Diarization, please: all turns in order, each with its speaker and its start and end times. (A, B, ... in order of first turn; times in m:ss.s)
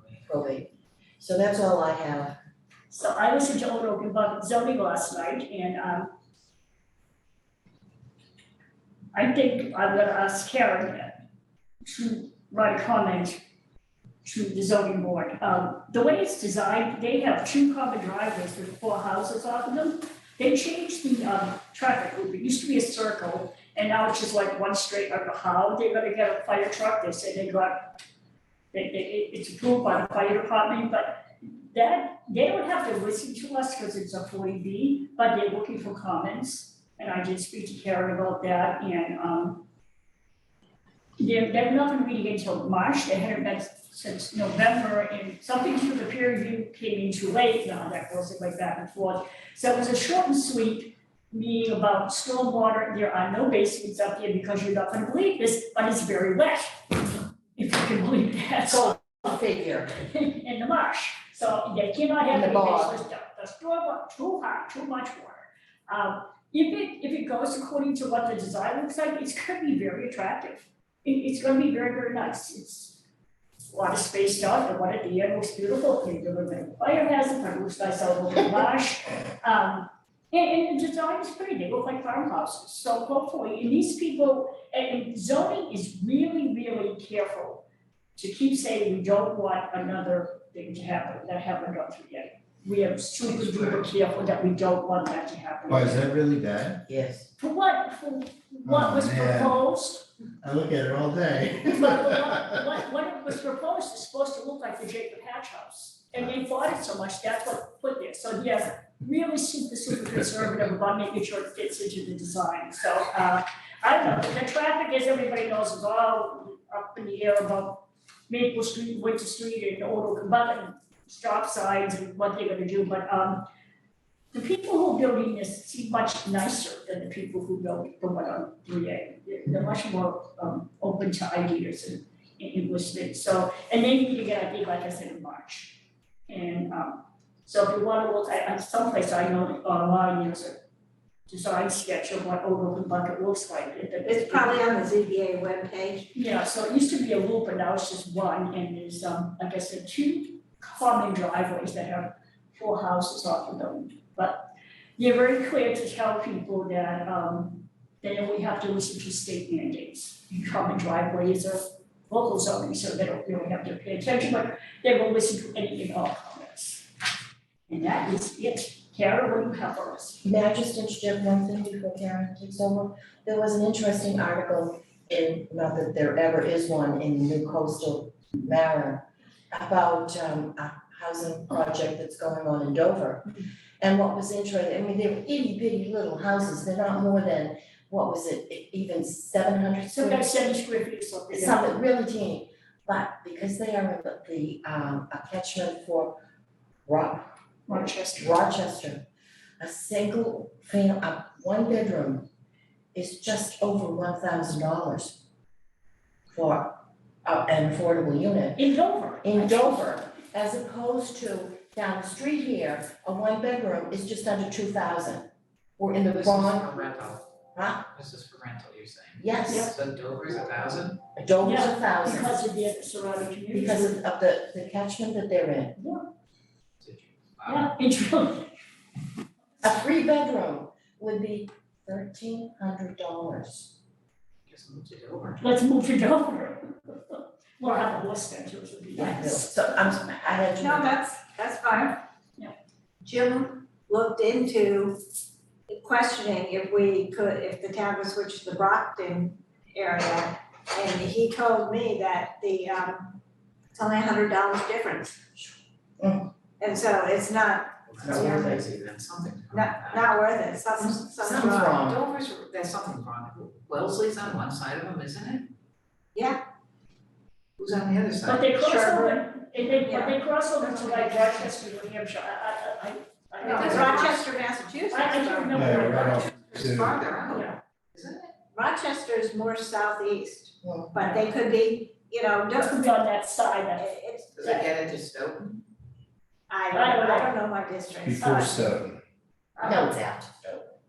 0:00.2-0:02.4 A
0:02.9-0:06.1 B
0:09.1-0:11.2 B
0:11.8-0:13.4 B
0:14.2-0:27.9 B
0:28.7-0:39.6 B
0:41.2-0:57.0 B
0:57.6-0:59.3 B
0:58.7-1:00.0 A
1:00.0-1:13.0 B
1:02.3-1:03.0 A
1:13.7-1:27.6 B
1:28.2-1:36.1 B
1:33.5-1:33.8 C
1:35.7-1:36.8 D
1:36.9-1:37.3 A
1:37.4-1:40.1 B
1:38.6-1:39.6 D
1:40.4-1:42.6 D
1:41.6-2:03.4 B
2:04.3-2:20.6 B
2:21.3-2:24.7 B
2:24.0-2:26.1 E
2:26.1-2:46.9 B
2:47.7-2:50.2 B
2:50.2-3:10.2 A
3:09.9-3:11.6 B
3:11.3-3:16.2 A
3:16.9-3:19.0 A
3:17.7-3:18.5 B
3:19.6-3:22.3 A
3:22.9-3:25.2 A
3:26.3-3:26.7 A
3:27.2-3:28.6 A
3:28.6-3:29.9 B
3:29.2-3:36.7 A
3:36.1-3:37.2 C
3:37.6-3:37.9 A
3:37.9-3:41.0 C
3:39.2-3:39.8 A
3:39.5-3:39.7 B
3:41.2-3:42.4 A
3:41.4-3:44.0 B
3:43.5-3:45.8 A
3:45.8-3:46.1 B
3:46.8-3:47.7 C
3:47.5-3:48.6 B
3:49.6-3:53.7 A
3:54.5-3:55.4 C
3:55.4-3:59.5 B
3:58.9-4:01.0 A
4:00.6-4:02.0 E
4:03.0-4:05.0 E
4:05.7-4:13.2 E
4:13.7-4:15.2 E
4:15.4-4:16.3 A
4:16.6-4:18.6 E
4:17.9-4:20.2 C
4:18.0-4:18.7 A
4:19.5-4:21.8 E
4:20.8-4:25.5 C
4:21.2-4:22.0 A
4:27.6-4:28.6 C
4:28.3-4:34.2 B
4:28.6-4:29.2 E
4:29.8-4:31.5 E
4:33.4-4:34.3 C
4:33.4-4:35.9 E
4:34.9-4:36.4 B
4:35.5-4:37.0 D
4:35.8-4:38.3 C
4:37.3-4:37.6 B
4:38.5-4:42.9 E
4:40.6-4:40.9 A
4:41.0-4:41.3 B
4:42.5-4:44.7 B
4:43.8-4:44.7 E
4:44.4-4:45.6 C
4:46.5-4:48.4 E
4:46.7-4:47.4 B
4:48.0-4:49.0 D
4:48.2-4:48.6 B
4:49.6-4:49.9 B
4:49.6-4:50.6 A